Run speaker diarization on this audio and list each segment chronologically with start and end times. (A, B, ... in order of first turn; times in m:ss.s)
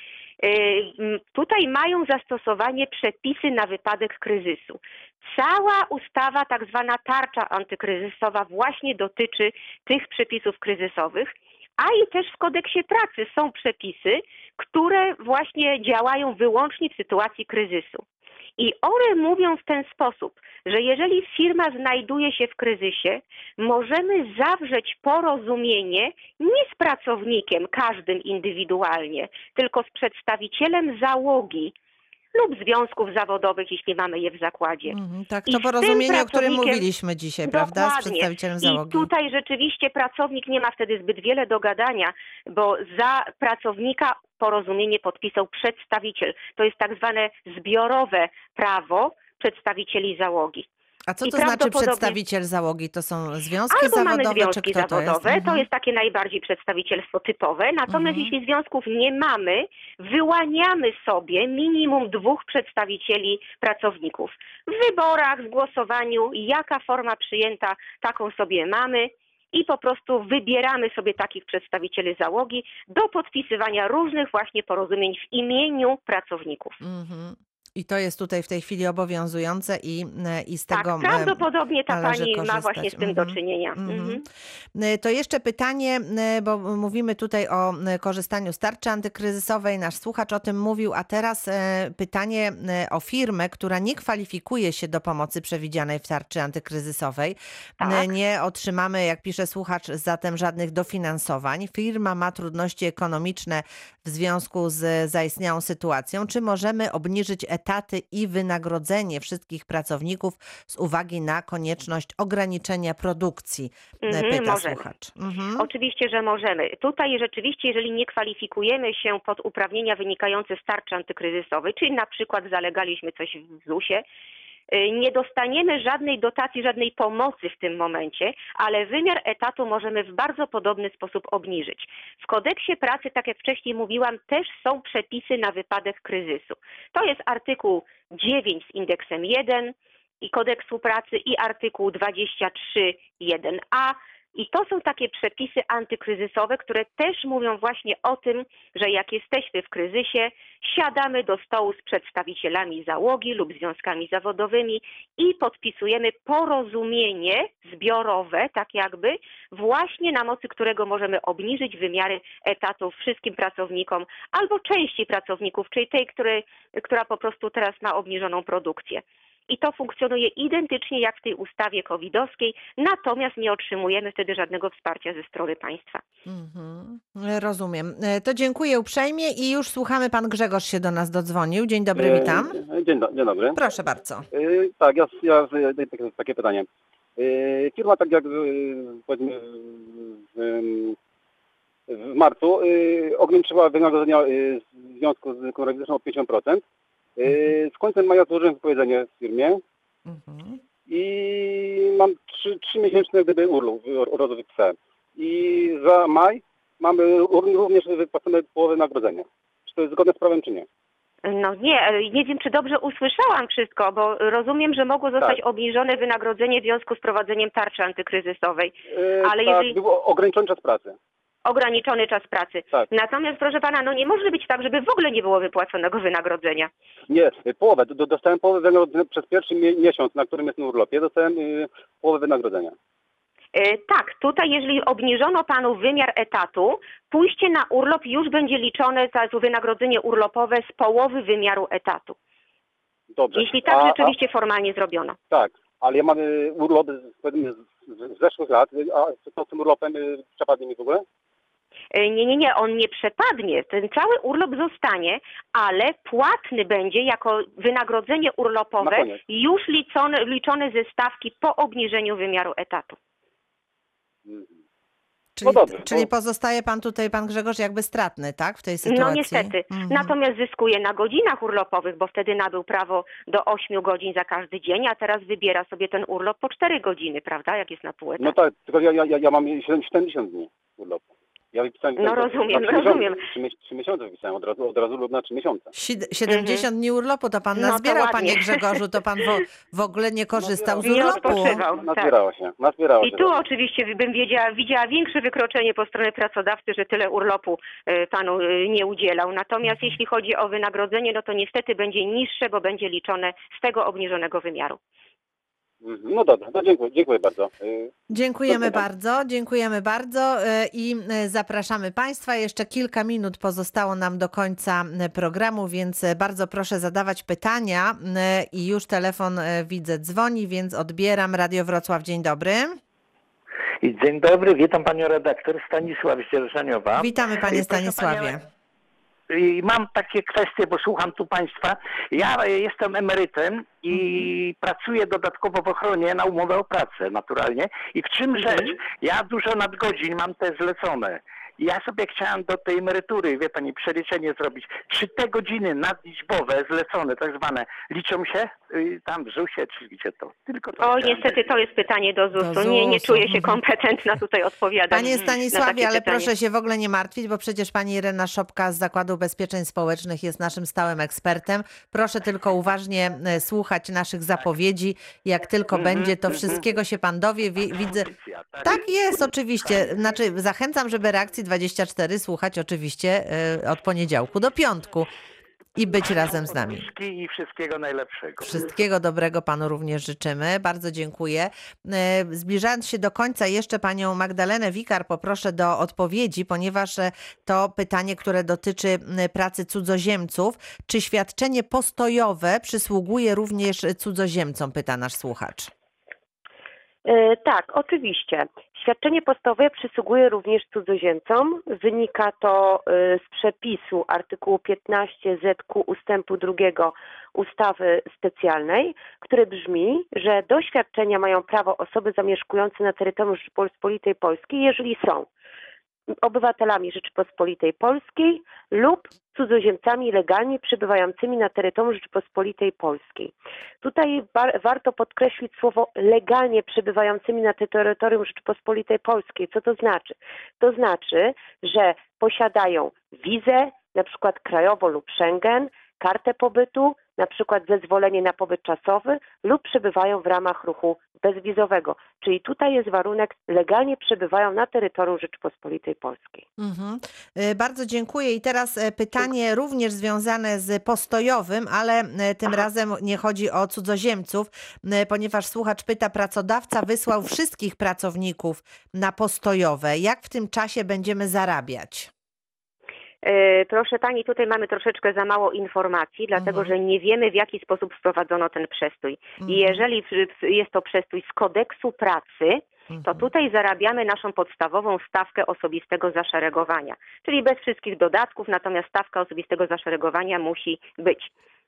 0:00.4-0:18.0 A
0:18.6-0:31.7 A
0:32.3-0:35.0 A
0:34.9-0:39.1 B
0:35.5-0:36.8 A
0:37.5-0:50.7 A
0:51.1-0:55.7 B
0:51.2-0:52.2 A
0:53.7-1:16.8 A
0:57.9-0:58.3 B
1:16.8-1:24.2 B
1:20.7-1:24.2 A
1:24.8-1:55.7 B
1:37.8-1:38.1 A
1:54.0-1:54.8 A
1:55.6-2:04.0 A
2:04.7-2:56.0 A
2:56.3-3:02.6 B
3:02.0-3:03.6 C
3:03.6-3:04.3 B
3:04.3-3:11.0 C
3:11.9-3:16.6 C
3:17.2-3:19.6 C
3:20.1-3:20.6 B
3:20.9-3:30.7 C
3:31.2-3:39.8 A
3:39.0-3:41.0 C
3:41.4-3:46.7 A
3:47.1-3:52.8 C
3:53.5-4:02.2 A
4:03.1-4:04.2 C
4:03.4-4:05.2 A
4:05.3-4:11.0 C
4:11.9-4:23.0 A
4:18.8-4:19.2 C
4:24.3-4:24.6 C
4:25.4-4:30.1 B
4:25.4-4:26.1 C
4:28.9-4:38.4 A
4:38.2-4:45.7 C
4:42.0-4:43.2 A
4:45.7-4:51.6 B
4:46.3-4:46.7 A
4:47.6-4:48.8 A
4:50.4-4:53.4 C
4:50.8-4:52.2 A
4:53.0-5:04.8 A
5:05.8-5:07.9 C
5:08.1-5:22.8 B
5:08.5-5:08.8 C
5:23.8-5:28.0 D
5:27.0-5:28.4 B
5:29.3-5:51.6 D
5:50.8-5:56.3 A
5:52.4-5:53.6 B
5:54.9-6:08.1 B
6:05.7-6:06.6 D
6:07.9-6:09.2 D
6:08.6-6:15.1 B
6:15.8-6:16.9 B
6:16.0-6:18.6 D
6:18.4-6:35.7 B
6:37.0-6:55.3 E
6:56.2-7:26.4 E
7:26.6-7:42.1 B
7:43.2-8:01.3 A
7:46.4-7:46.7 B
7:49.4-7:49.8 B
7:52.9-7:53.3 B